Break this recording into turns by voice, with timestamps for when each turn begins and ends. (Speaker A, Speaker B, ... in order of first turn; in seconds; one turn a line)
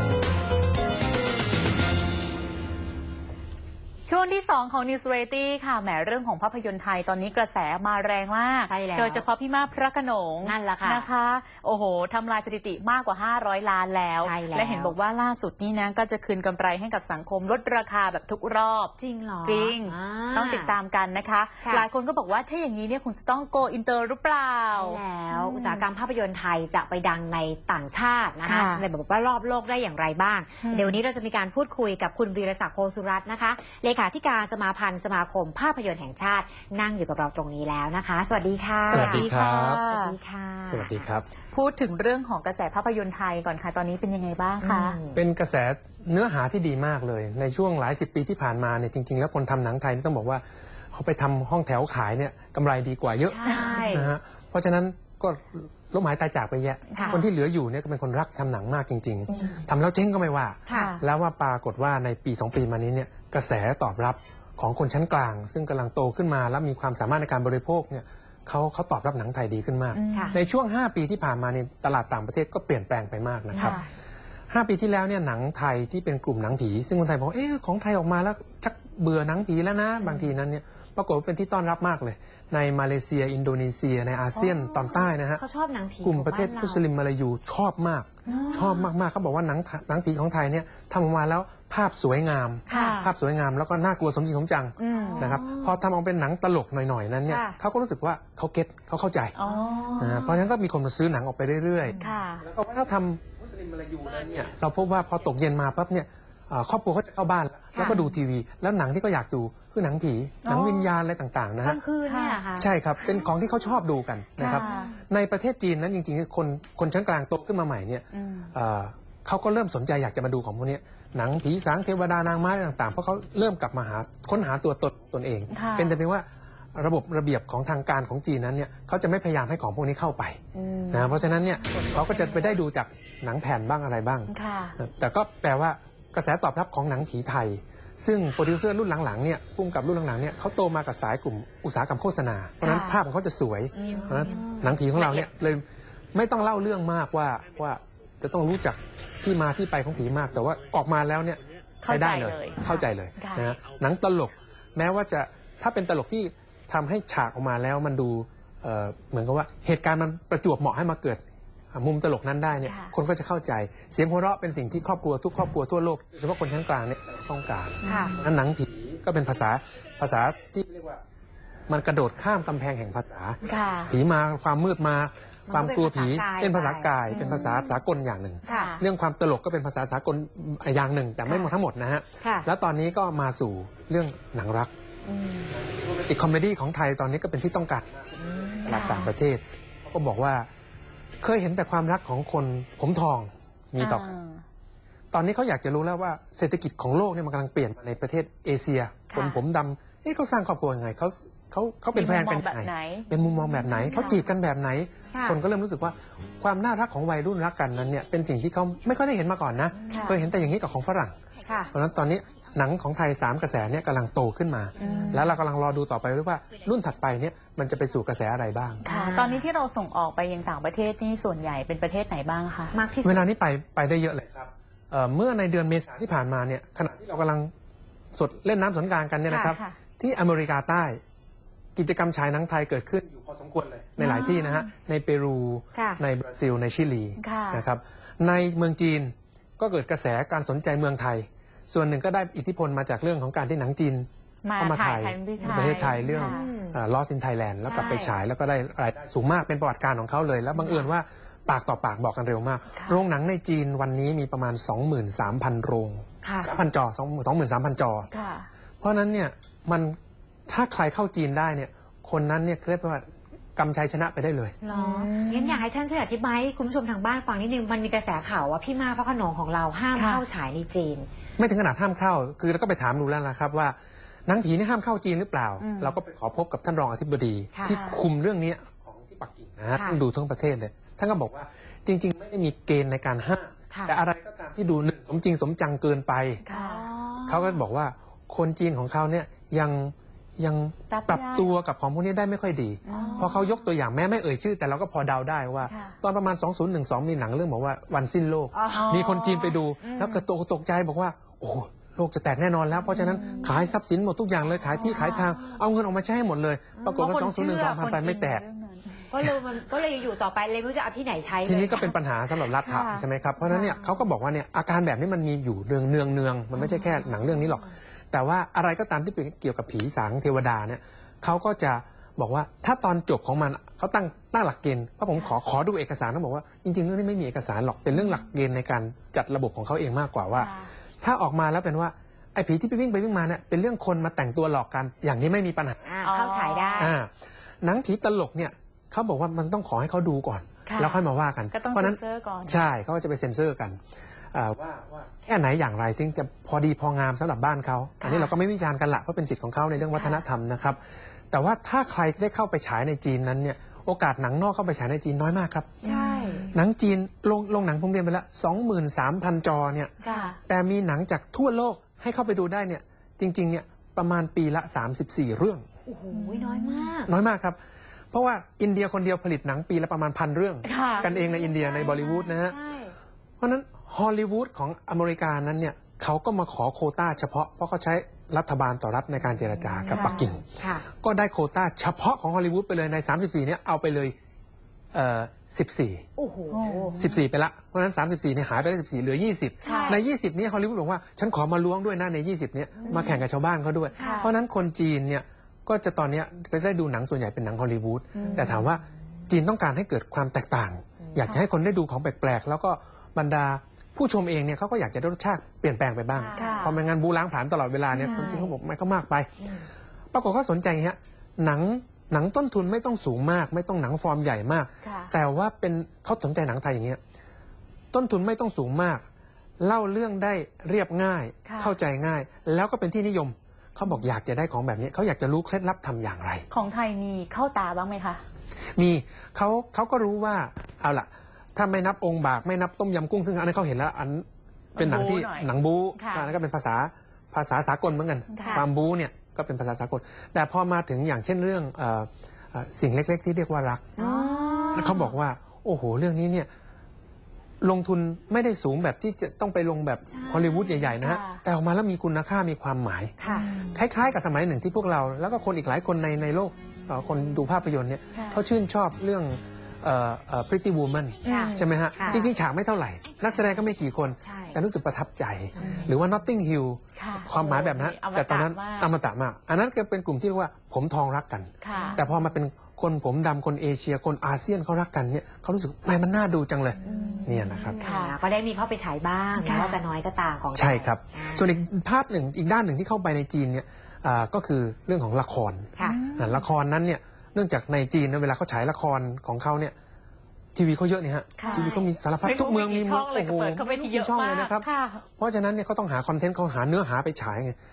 Speaker A: 4.0-25.9
Speaker B: 8.7-9.2
Speaker B: 10.4-11.1
Speaker B: 14.2-14.9
Speaker B: 19.0-20.8
Speaker B: 24.7-39.3
Speaker A: 28.4-28.9
Speaker A: 30.6-31.0
Speaker A: 38.8-40.2
Speaker C: 38.9-39.8
Speaker B: 39.9-41.1
Speaker C: 40.7-41.3
Speaker A: 41.4-45.0
Speaker B: 44.6-45.2
Speaker C: 45.1-73.8
Speaker B: 53.3-54.1
Speaker A: 53.4-53.9
Speaker A: 56.9-57.2
Speaker B: 57.0-57.2
Speaker B: 60.7-60.9
Speaker A: 60.7-61.0
Speaker A: 69.9-70.4
Speaker B: 73.5-73.8
Speaker A: 73.6-73.9
Speaker C: 74.5-85.4
Speaker B: 84.3-86.8
Speaker C: 86.0-99.3
Speaker A: 88.2-88.6
Speaker B: 88.3-88.9
Speaker A: 92.7-93.1
Speaker B: 92.7-93.0
Speaker A: 94.8-95.3
Speaker B: 94.9-95.8
Speaker B: 97.3-97.6
Speaker A: 99.3-100.2
Speaker B: 99.5-100.5
Speaker C: 100.0-111.8
Speaker B: 101.9-102.1
Speaker A: 102.0-102.4
Speaker B: 107.7-108.0
Speaker A: 110.4-110.9
Speaker B: 111.6-113.3
Speaker A: 112.0-112.5
Speaker C: 112.6-130.4
Speaker B: 114.4-115.0
Speaker A: 114.4-114.9
Speaker A: 118.1-118.5
Speaker A: 125.5-126.0
Speaker A: 130.5-131.2
Speaker C: 130.9-161.2
Speaker A: 131.9-132.6
Speaker A: 134.3-134.8
Speaker A: 142.6-143.0
Speaker A: 143.8-144.4
Speaker B: 143.9-144.8
Speaker A: 144.9-145.3
Speaker A: 151.8-153.5
Speaker C: 161.7-171.0
Speaker A: 162.6-162.9
Speaker A: 167.8-168.2
Speaker B: 167.8-168.2
Speaker C: 171.7-184.7
Speaker A: 173.4-173.9
Speaker B: 175.5-177.3
Speaker A: 177.1-177.6
Speaker A: 178.4-178.8
Speaker B: 181.2-181.5
Speaker B: 182.2-182.5
Speaker A: 185.1-185.5
Speaker C: 185.5-190.5
Speaker B: 188.2-188.8
Speaker A: 188.7-189.1
Speaker C: 191.2-194.1
Speaker A: 193.8-194.4
Speaker C: 195.1-211.2
Speaker A: 199.1-199.4
Speaker A: 201.9-203.1
Speaker A: 203.8-204.3
Speaker B: 205.1-205.4
Speaker B: 209.7-210.2
Speaker A: 209.9-210.2
Speaker B: 211.4-211.7
Speaker C: 211.7-218.8
Speaker A: 214.8-215.3
Speaker A: 218.8-222.8
Speaker B: 218.9-219.4
Speaker B: 222.7-223.3
Speaker C: 223.0-227.5
Speaker C: 228.1-231.0
Speaker B: 229.3-229.6
Speaker A: 229.5-229.8
Speaker C: 231.8-258.1
Speaker B: 234.0-234.7
Speaker B: 235.7-236.0
Speaker A: 237.2-237.6
Speaker A: 244.4-246.5
Speaker B: 245.4-246.8
Speaker B: 247.6-248.2
Speaker A: 252.7-253.0
Speaker B: 256.2-256.5
Speaker A: 258.1-258.5
Speaker C: 258.8-260.0
Speaker C: 260.5-264.6
Speaker B: 264.6-271.1
Speaker A: 264.7-265.6
Speaker A: 269.9-270.2
Speaker C: 271.4-286.4
Speaker A: 275.6-276.0
Speaker A: 277.6-278.0
Speaker B: 279.7-280.0
Speaker B: 283.7-284.0
Speaker A: 286.4-286.9
Speaker B: 286.5-287.6
Speaker C: 287.3-308.4
Speaker A: 290.9-291.5
Speaker A: 292.9-293.4
Speaker B: 292.9-293.6
Speaker A: 295.6-295.9
Speaker B: 298.5-299.0
Speaker A: 298.7-300.2
Speaker A: 302.9-303.5
Speaker B: 303.1-303.6
Speaker B: 304.6-305.6
Speaker A: 307.0-309.2
Speaker B: 309.1-311.9
Speaker C: 311.4-335.9
Speaker A: 312.4-313.1
Speaker B: 313.4-314.1
Speaker B: 316.5-317.7
Speaker A: 330.4-330.7
Speaker B: 335.8-336.9
Speaker A: 336.0-336.9
Speaker C: 336.8-337.1
Speaker C: 337.6-343.8
Speaker A: 340.6-342.6
Speaker C: 344.3-350.8
Speaker C: 351.3-355.9
Speaker A: 355.8-356.5
Speaker B: 355.8-356.4
Speaker C: 356.5-365.6
Speaker B: 360.0-360.3
Speaker A: 360.0-360.4
Speaker B: 365.9-367.1
Speaker A: 366.1-366.9
Speaker C: 367.1-367.6
Speaker C: 368.1-372.6
Speaker A: 370.6-371.1
Speaker B: 370.9-372.9
Speaker C: 373.4-384.1
Speaker B: 379.9-380.9
Speaker A: 379.9-380.3
Speaker C: 384.9-386.0
Speaker B: 386.2-387.0
Speaker A: 386.5-387.2
Speaker C: 387.0-409.4
Speaker A: 389.6-390.0
Speaker B: 389.6-390.0
Speaker B: 392.8-393.2
Speaker A: 392.9-393.2
Speaker B: 393.9-394.3
Speaker A: 394.0-394.3
Speaker A: 398.1-398.4
Speaker B: 398.2-398.8
Speaker B: 406.2-406.7
Speaker A: 406.2-406.8
Speaker A: 408.0-408.5
Speaker B: 408.0-408.5
Speaker B: 409.4-409.7
Speaker C: 410.1-417.0
Speaker A: 414.8-415.1
Speaker C: 417.9-419.0
Speaker C: 419.6-426.4
Speaker A: 421.4-421.8
Speaker A: 426.5-428.2
Speaker C: 428.8-434.2
Speaker A: 434.7-436.3
Speaker C: 434.8-444.0
Speaker A: 438.3-438.6
Speaker B: 443.9-444.9
Speaker A: 444.0-445.1
Speaker C: 444.7-446.5
Speaker C: 447.6-477.8
Speaker B: 450.1-451.0
Speaker A: 451.0-451.4
Speaker B: 453.2-453.7
Speaker A: 458.1-458.4
Speaker A: 461.2-462.2
Speaker B: 461.3-462.3
Speaker B: 464.2-464.6
Speaker B: 465.6-465.9
Speaker A: 465.6-465.9
Speaker A: 466.9-468.9
Speaker A: 471.6-472.0
Speaker B: 471.7-472.0
Speaker B: 476.8-481.5
Speaker A: 476.8-478.2
Speaker A: 479.4-479.8
Speaker C: 480.5-489.7
Speaker A: 485.8-486.5
Speaker C: 490.5-497.6
Speaker A: 491.4-495.0
Speaker B: 491.5-491.9